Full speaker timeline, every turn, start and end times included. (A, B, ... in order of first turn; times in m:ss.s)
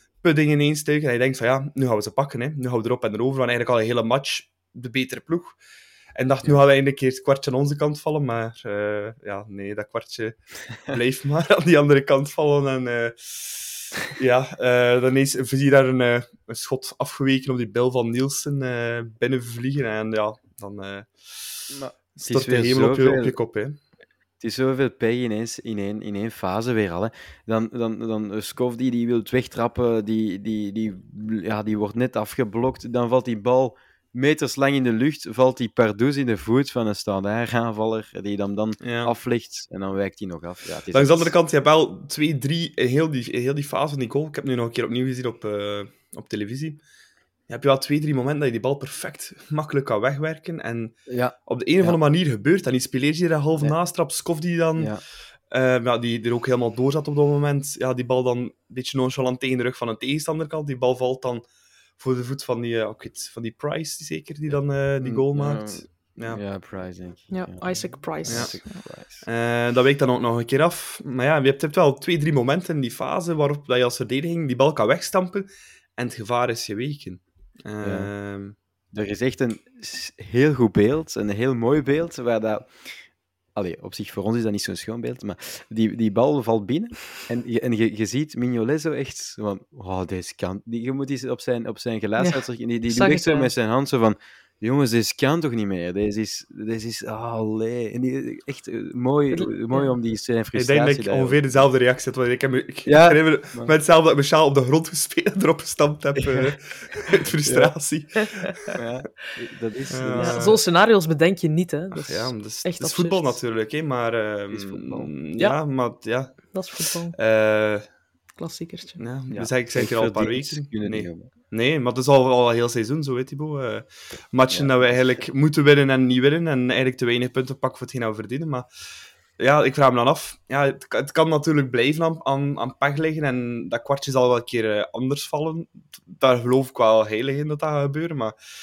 0:00.2-0:05.6 A
0:06.2-0:23.8 A
0:21.7-0:23.4 B
0:24.4-0:41.3 B
0:38.8-0:39.1 A
0:40.9-0:46.8 A
0:47.5-0:55.0 A
0:51.1-0:52.0 B
0:54.8-0:55.0 B
0:55.5-1:01.4 A
1:02.0-1:06.4 A
1:04.5-1:09.2 B
1:07.3-1:08.8 C
1:08.3-1:18.6 A
1:17.8-1:18.1 B
1:18.9-1:23.0 B
1:23.6-1:41.6 B
1:32.2-1:33.5 C
1:39.3-1:39.9 C
1:40.5-1:48.8 A
1:42.9-1:43.7 B
1:47.4-1:47.7 B
1:48.7-1:50.6 B
1:49.9-1:50.6 A
1:50.2-1:53.4 C
1:51.9-1:56.6 A
1:54.5-1:55.1 B
1:56.5-1:57.1 C
1:57.1-1:57.9 A
1:58.4-1:59.0 C
1:59.0-2:08.7 A
1:59.3-2:01.3 B
2:04.5-2:05.2 B
2:09.4-2:18.4 A